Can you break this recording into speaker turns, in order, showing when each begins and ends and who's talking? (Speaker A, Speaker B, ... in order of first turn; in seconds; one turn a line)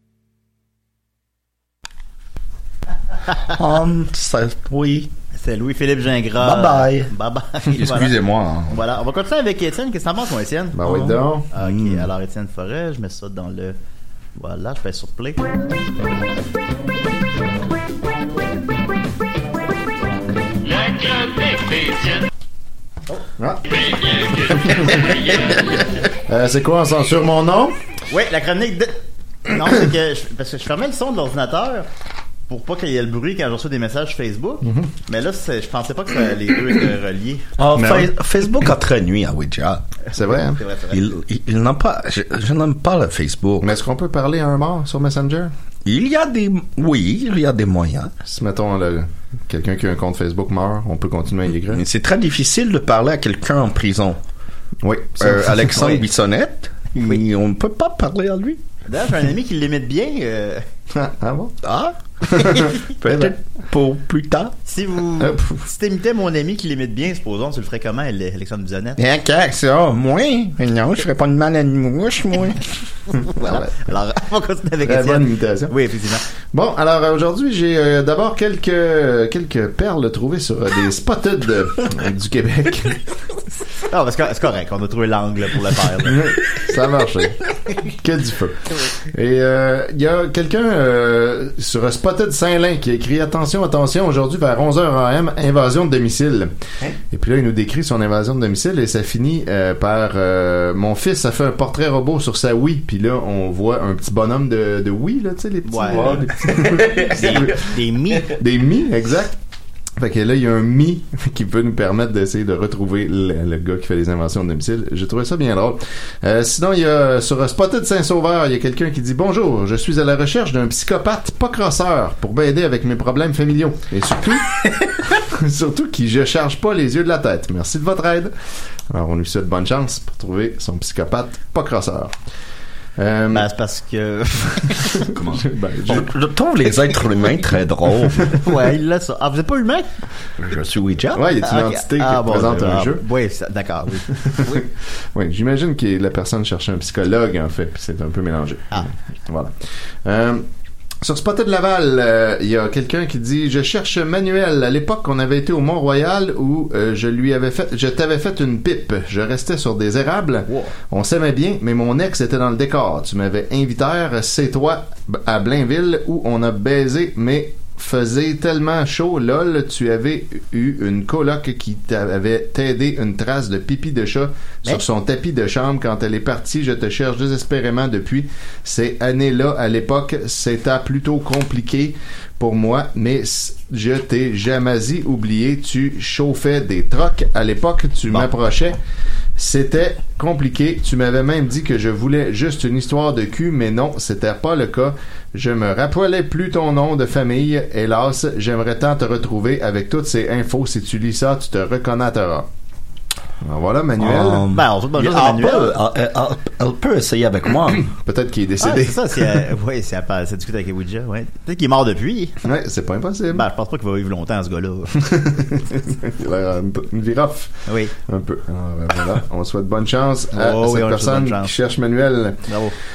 Speaker A: 3.5-5.1
Speaker B: 5.3-8.1
Speaker A: 6.4-7.1
Speaker A: 7.7-8.8
Speaker B: 8.7-13.8
Speaker C: 10.7-11.5
Speaker A: 11.6-12.1
Speaker B: 14.3-15.5
Speaker C: 23.4-23.6
Speaker C: 24.3-25.4
Speaker C: 26.2-27.8
Speaker B: 28.1-31.9
Speaker B: 32.5-37.5
Speaker C: 34.6-34.9
Speaker A: 37.6-39.8
Speaker C: 37.8-38.1
Speaker C: 40.1-40.6
Speaker B: 40.1-41.0
Speaker A: 40.9-43.7
Speaker C: 43.6-45.5
Speaker A: 45.8-48.1
Speaker C: 48.2-51.8
Speaker A: 51.7-54.2
Speaker C: 54.8-56.0
Speaker A: 55.2-58.6
Speaker B: 58.9-60.6
Speaker C: 60.9-61.6
Speaker A: 61.6-64.5
Speaker C: 62.2-63.3
Speaker B: 64.7-69.0
Speaker C: 65.2-65.7
Speaker A: 69.0-72.6
Speaker B: 73.3-76.2
Speaker C: 73.4-73.7
Speaker C: 74.8-75.7
Speaker C: 76.5-83.0
Speaker B: 83.9-86.2
Speaker C: 86.0-96.5
Speaker C: 97.1-107.6
Speaker B: 105.6-108.3
Speaker A: 106.6-107.1
Speaker C: 108.2-109.4
Speaker C: 110.0-128.3
Speaker C: 128.9-132.1
Speaker C: 133.0-133.5
Speaker B: 133.3-135.1
Speaker A: 135.1-138.3
Speaker C: 135.3-136.1
Speaker B: 138.4-139.9
Speaker A: 140.4-141.2
Speaker C: 141.1-143.0
Speaker B: 141.4-144.6
Speaker C: 144.2-150.4
Speaker C: 151.0-188.8
Speaker C: 189.4-202.5
Speaker C: 203.4-204.4
Speaker A: 204.0-207.9
Speaker B: 204.5-205.7
Speaker C: 207.9-209.3
Speaker B: 208.6-212.4
Speaker C: 212.4-213.4
Speaker B: 213.3-215.0
Speaker C: 215.0-222.4
Speaker B: 217.7-217.9
Speaker B: 220.3-221.5
Speaker B: 222.5-222.8